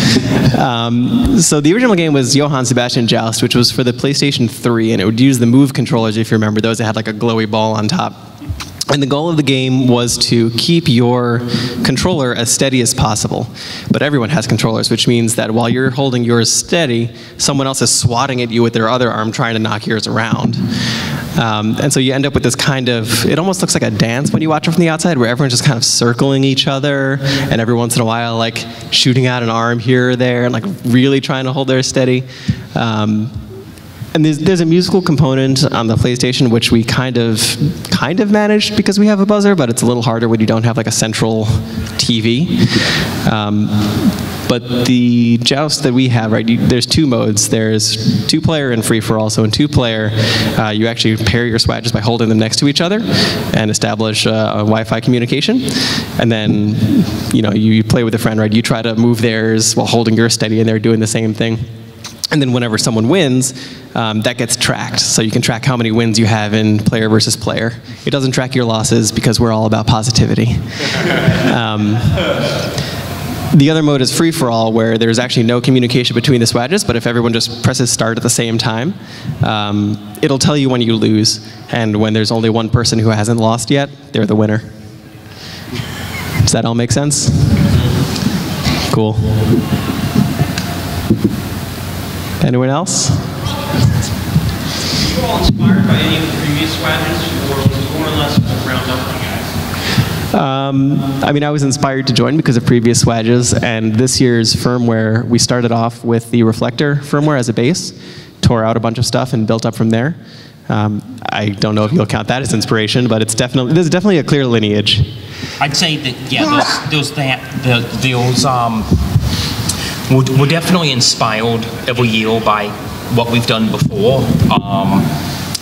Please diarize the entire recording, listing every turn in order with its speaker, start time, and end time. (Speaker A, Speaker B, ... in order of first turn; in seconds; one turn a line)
Speaker A: 0.4-8.2
Speaker A: 8.9-20.7
Speaker A: 21.4-33.4
Speaker A: 34.1-61.6
Speaker A: 62.3-70.6
Speaker A: 71.2-72.3
Speaker A: 73.5-84.7
Speaker A: 86.4-87.6
Speaker A: 88.9-89.5
Speaker A: 92.4-93.3
Speaker B: 95.0-99.6
Speaker A: 100.3-110.2
Speaker A: 110.7-115.1
Speaker C: 115.6-119.0
Speaker A: 116.4-116.7
Speaker C: 120.1-125.1